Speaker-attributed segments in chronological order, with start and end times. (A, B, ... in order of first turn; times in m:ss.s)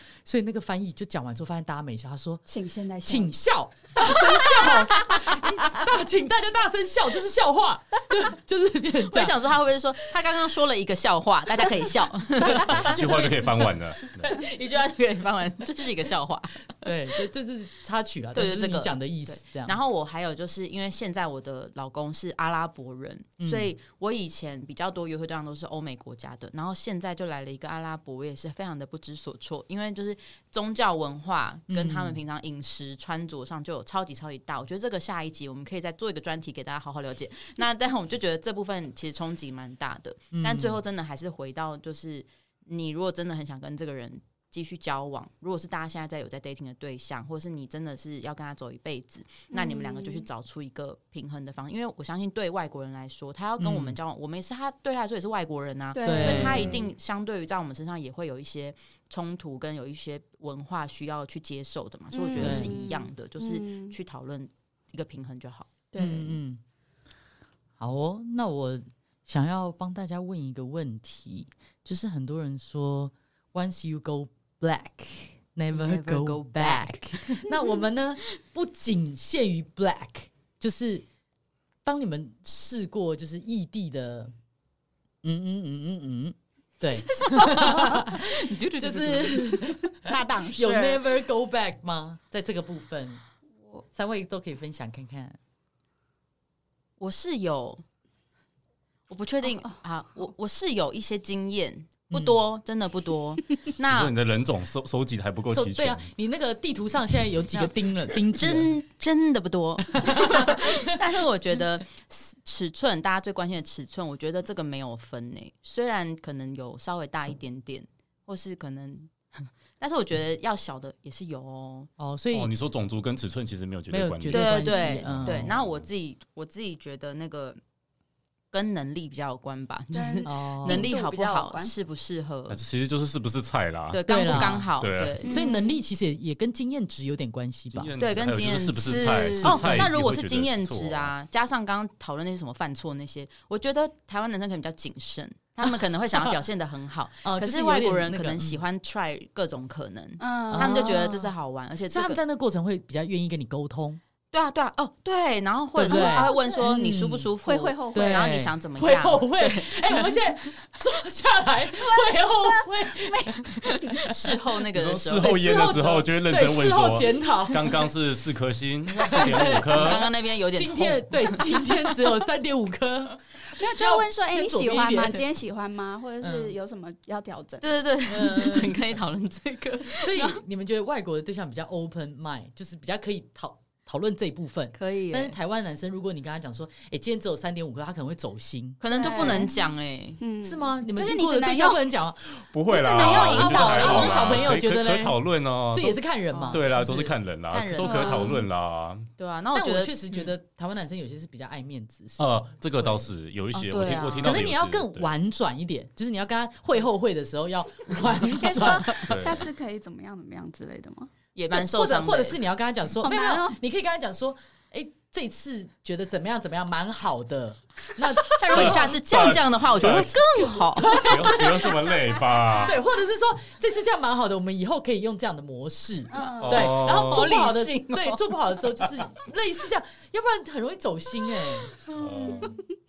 0:00.2-0:02.4 A
0:02.5-0:03.3 B
0:03.0-0:09.3 A
0:09.1-0:16.9 C
0:12.4-0:14.4 D
0:12.4-0:13.0 B
0:16.8-0:19.8 A
0:18.3-1:05.7 C
0:23.4-0:23.7 A
0:31.7-0:32.2 A
0:40.3-0:40.8 A
0:49.5-0:50.2 B
0:53.6-0:54.0 A
0:55.9-0:56.9 B
0:56.0-0:56.7 A
1:02.1-1:03.9 B
1:02.4-1:02.7 A
1:05.9-1:06.4 B
1:06.0-1:06.6 A
1:07.8-1:21.0 A
1:15.7-1:17.5 C
1:21.8-1:24.3 A
1:25.2-1:33.2 A
1:27.2-1:29.7 C
1:30.0-1:31.0 B
1:33.9-1:35.4 A
1:37.0-1:37.8 C
1:39.1-1:44.1 C
1:42.1-1:42.4 A
1:43.9-1:46.1 D
1:45.5-1:48.7 A
1:48.3-2:01.9 C
1:49.9-1:50.9 A
2:02.0-2:02.5 A
2:02.3-2:05.9 D
2:03.9-2:05.5 A
2:04.3-2:07.6 C
2:08.5-2:12.6 C
2:09.9-2:11.7 B
2:10.2-2:10.9 A
2:12.5-2:15.2 D
2:13.9-2:15.4 C
2:14.0-2:14.7 A
2:15.2-2:15.8 B
2:15.2-2:17.9 A
2:17.7-2:21.1 D
2:18.0-2:32.2 C
2:18.9-2:19.7 B
2:19.6-2:19.8 A
2:25.6-2:26.4 A
2:27.2-2:28.6 A
2:30.2-2:31.0 B
2:30.5-2:31.3 A
2:31.9-2:34.0 A
2:34.3-2:40.5 C
2:35.8-2:37.3 A
2:35.8-2:36.7 B
2:37.4-2:38.2 B
2:37.9-2:44.2 A
2:41.8-2:43.4 B
2:43.9-2:45.8 C
2:44.7-2:50.1 D
2:45.2-2:47.9 A
2:48.9-2:53.2 A
2:49.2-2:51.6 C
2:53.5-2:57.6 B
2:53.7-2:55.2 A
2:56.2-2:56.5 A
2:57.6-3:00.4 C
2:58.1-2:58.8 A
3:00.0-3:09.4 A
3:04.8-3:05.4 C
3:08.8-3:10.2 C
3:08.9-3:09.6 B
3:10.2-3:11.8 B
3:10.4-3:12.2 A
3:12.5-3:19.1 D
3:12.7-3:14.4 B
3:12.8-3:14.3 C
3:13.3-3:15.2 A
3:15.7-3:17.1 A
3:17.5-3:18.4 C
3:17.8-3:18.4 B
3:19.2-3:20.3 C
3:19.5-3:23.1 A
3:22.2-3:25.1 D
3:23.5-3:24.4 C
3:24.2-3:29.0 A
3:28.4-3:31.1 B
3:29.0-3:29.4 D
3:31.3-3:32.4 C
3:31.5-3:39.0 A
3:33.0-3:33.6 B
3:38.3-3:41.1 C
3:38.5-3:40.2 D
3:40.3-3:41.9 A
3:41.0-3:42.8 D
3:42.6-3:51.7 A
3:46.1-3:46.4 B
3:46.1-3:48.2 C
3:46.4-3:47.2 D
3:51.9-3:52.5 C
3:51.9-3:52.6 D